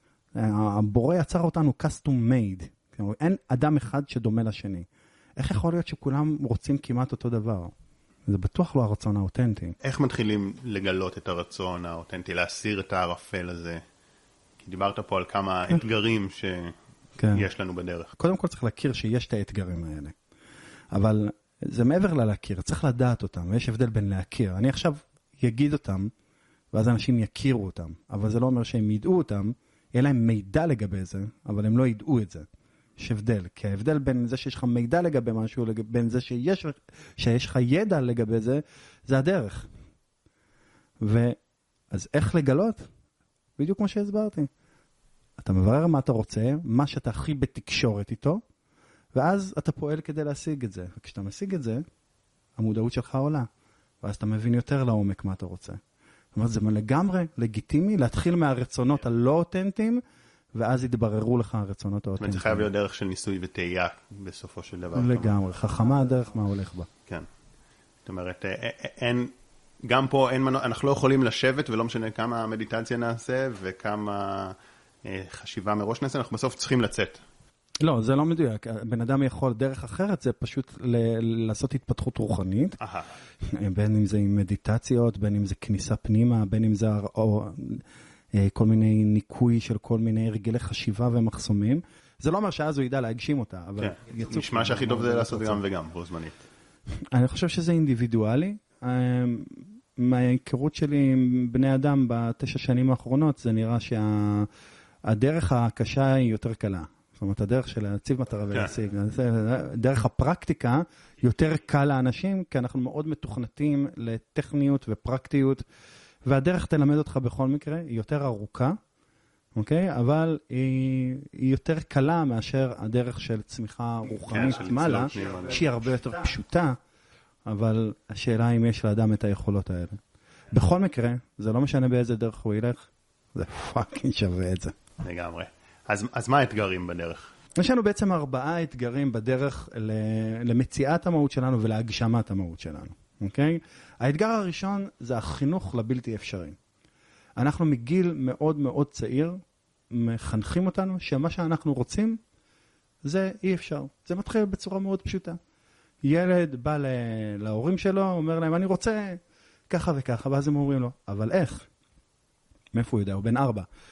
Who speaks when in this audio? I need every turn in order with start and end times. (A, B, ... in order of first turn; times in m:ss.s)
0:00.3-0:07.7 A
0:08.3-0:09.8 A
0:09.8-0:13.8 B
0:14.6-0:16.7 B
0:17.2-0:17.4 A
0:17.3-0:18.1 B
0:18.2-0:20.2 A
0:20.9-0:26.1 A
0:26.7-0:32.5 A
0:33.0-0:39.7 A
0:41.0-0:41.4 A
0:41.9-0:42.9 A
0:43.6-0:44.5 A
0:45.4-0:48.4 A
0:49.1-0:51.8 A
0:52.6-0:53.5 A
0:54.0-0:55.8 A
0:56.3-1:00.0 A
1:00.5-1:02.7 A
1:02.2-1:05.4 B
1:05.0-1:06.9 A
1:08.1-1:09.3 B
1:09.8-1:17.2 B
1:17.8-1:22.8 A
1:22.8-1:23.1 B
1:23.5-1:35.6 A
1:33.8-1:36.4 B
1:37.1-1:44.5 A
1:45.1-1:55.6 A
1:56.2-1:58.8 A
1:59.6-2:06.8 A
2:04.3-2:05.6 B
2:07.5-2:10.0 A
2:10.5-2:14.7 A
2:15.0-2:17.3 B
2:17.6-2:26.6 A
2:27.4-2:32.2 A
2:33.0-2:35.4 A
2:36.0-2:41.7 A
2:42.7-2:43.7 A